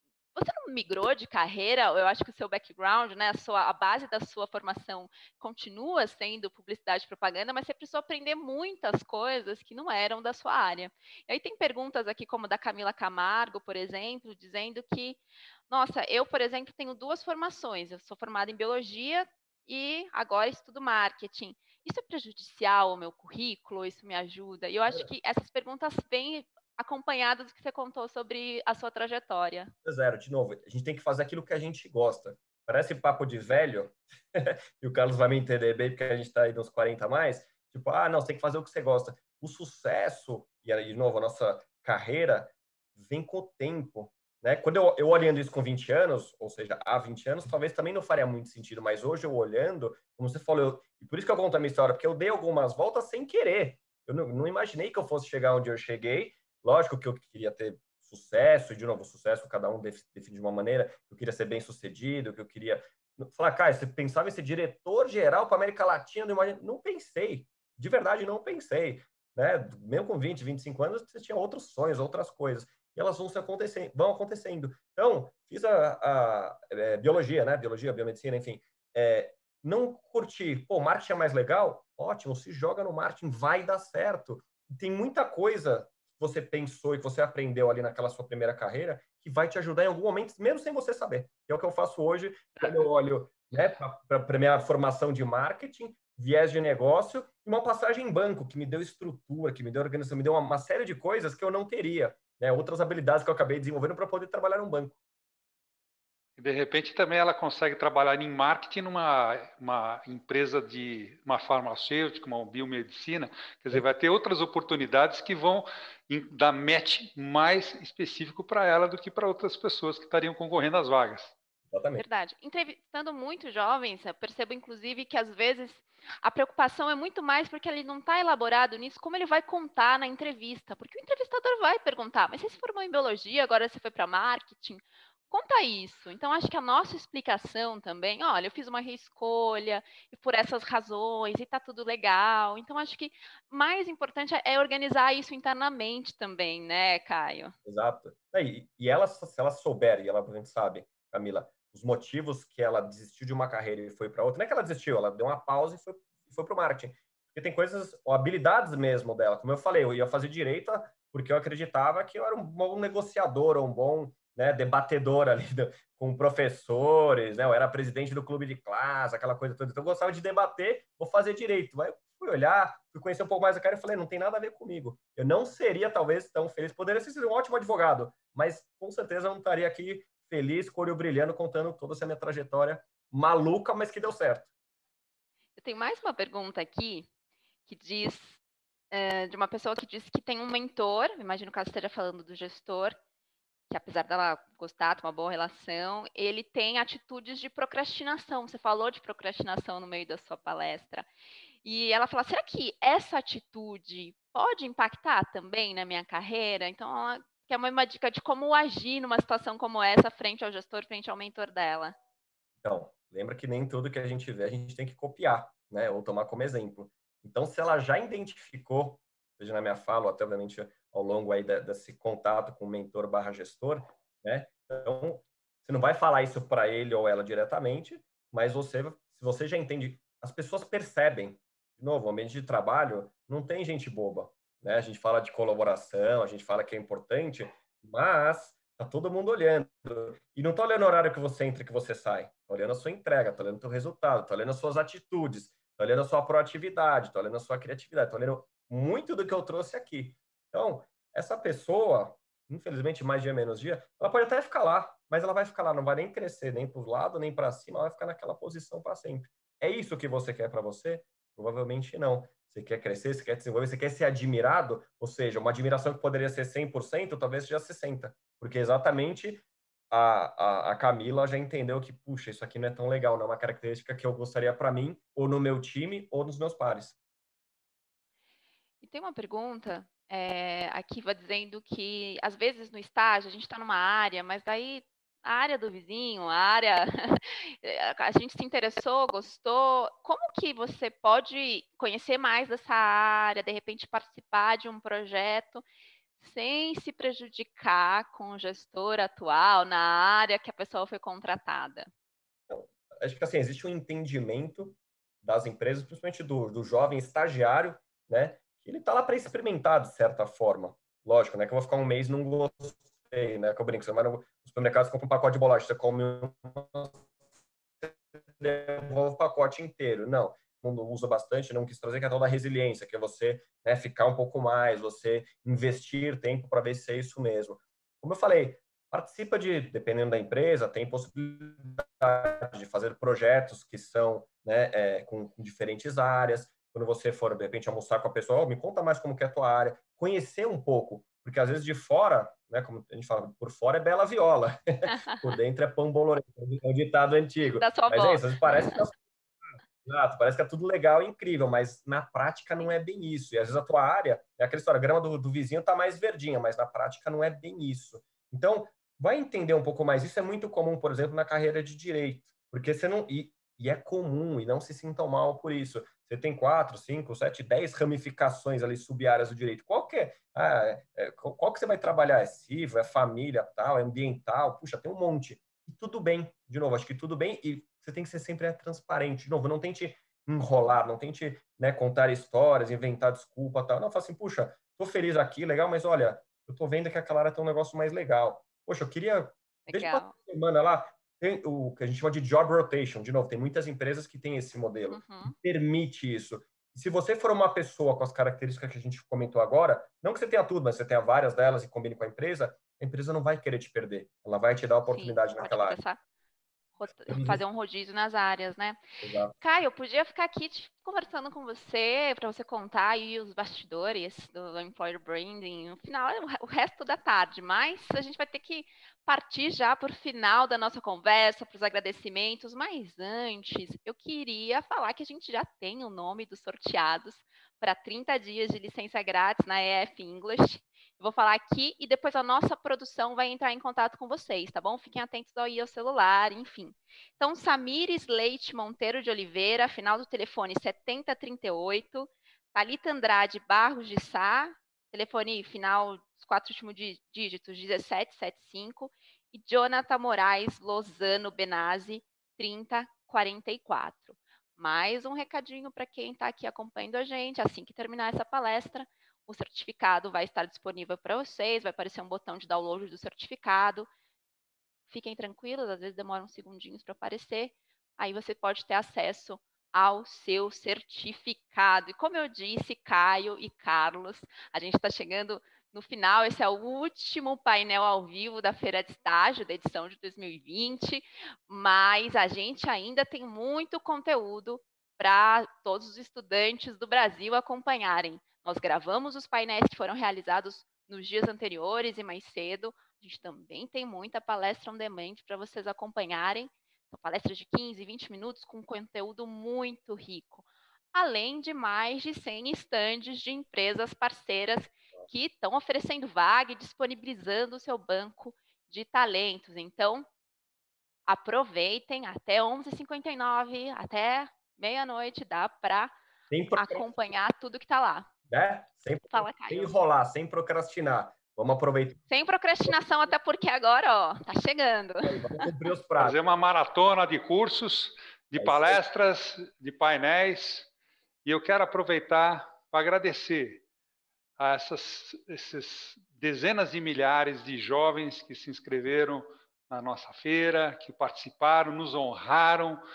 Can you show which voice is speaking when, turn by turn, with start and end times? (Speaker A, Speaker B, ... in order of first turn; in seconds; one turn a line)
Speaker A: 0.3-29.7
Speaker B: 29.8-105.0
Speaker C: 106.4-121.3
Speaker B: 121.7-122.0
Speaker A: 122.0-147.5
Speaker B: 147.6-184.5
Speaker A: 185.6-187.1
Speaker A: 187.7-188.4
Speaker A: 188.9-193.0
Speaker A: 193.7-201.1
Speaker A: 201.6-211.9
Speaker B: 212.6-276.9
Speaker A: 278.8-295.6
Speaker A: 296.2-301.9
Speaker B: 302.5-317.0
Speaker B: 317.8-348.9
Speaker A: 347.6-348.9
Speaker B: 349.8-405.8
Speaker A: 389.7-390.1
Speaker A: 394.9-395.4
Speaker A: 404.9-406.0
Speaker A: 406.8-408.8
Speaker B: 407.1-407.4
Speaker B: 409.0-409.3
Speaker A: 409.3-463.9
Speaker A: 464.9-510.1
Speaker A: 511.1-515.9
Speaker B: 516.3-516.9
Speaker A: 516.5-518.1
Speaker B: 518.3-522.0
Speaker A: 519.1-519.7
Speaker A: 522.1-525.4
Speaker B: 525.0-526.2
Speaker C: 526.0-530.7
Speaker B: 528.4-528.8
Speaker C: 531.2-533.6
Speaker C: 534.4-542.8